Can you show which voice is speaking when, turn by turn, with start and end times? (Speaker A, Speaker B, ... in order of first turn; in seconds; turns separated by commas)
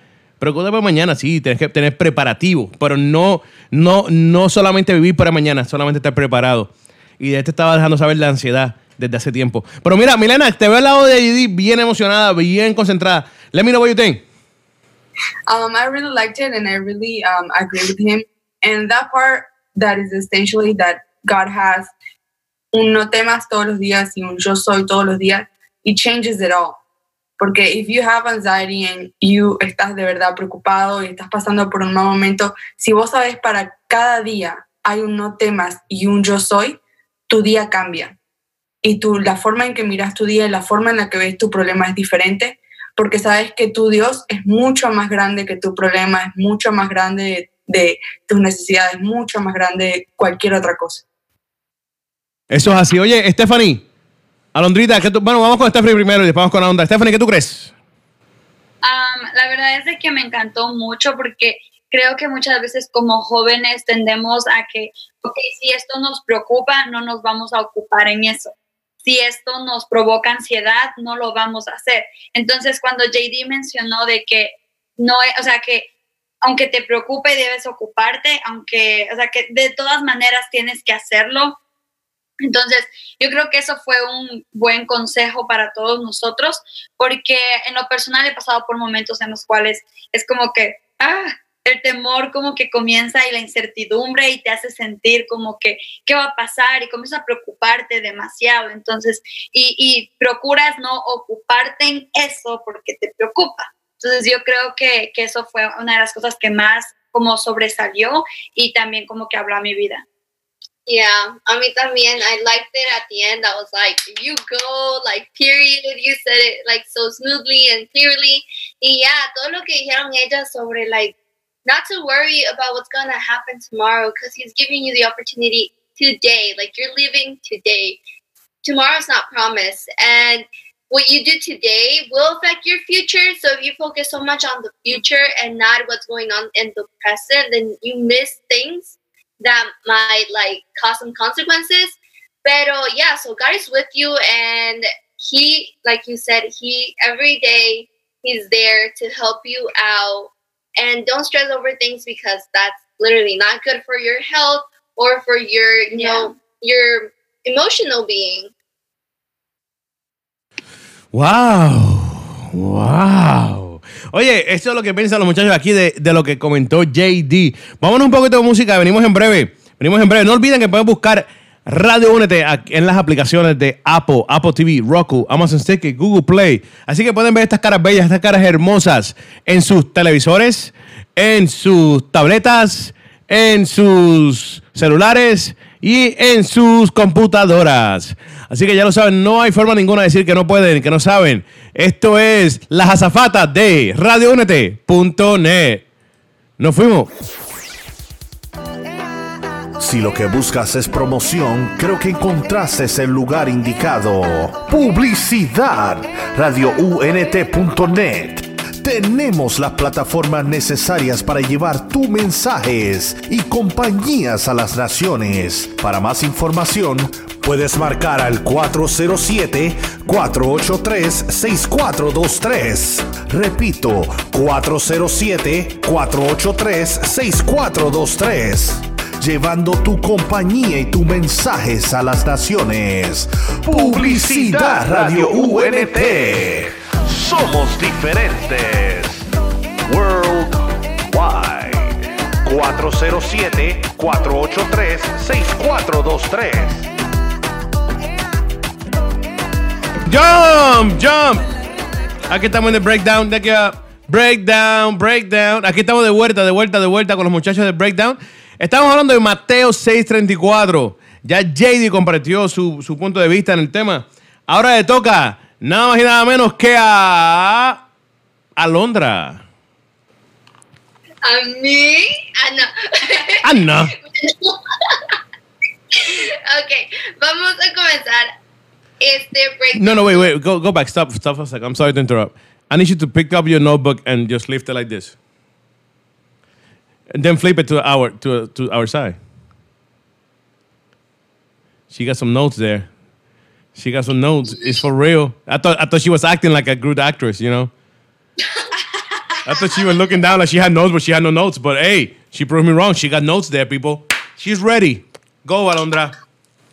Speaker A: 0.4-14.2, Speaker B: 15.5-21.9, Speaker B: 22.7-26.8, Speaker B: 27.4-38.2, Speaker B: 38.8-51.0, Speaker A: 52.5-53.9, Speaker A: 54.5-57.7, Speaker C: 58.8-75.9, Speaker C: 76.4-81.6, Speaker C: 82.4-110.0, Speaker D: 110.9-128.0, Speaker D: 128.6-158.5, Speaker A: 161.1-195.8, Speaker A: 196.6-197.1, Speaker E: 199.8-239.2, Speaker E: 239.9-241.9, Speaker E: 242.4-246.8, Speaker A: 250.1-251.5, Speaker A: 252.3-267.8, Speaker A: 268.6-269.4, Speaker D: 271.2-273.4, Speaker A: 273.4-273.9, Speaker D: 274.1-275.0, Speaker D: 275.9-278.3, Speaker D: 279.0-280.3, Speaker A: 279.7-285.1, Speaker A: 287.1-289.2, Speaker A: 291.9-292.9, Speaker A: 293.8-297.7, Speaker A: 299.4-306.1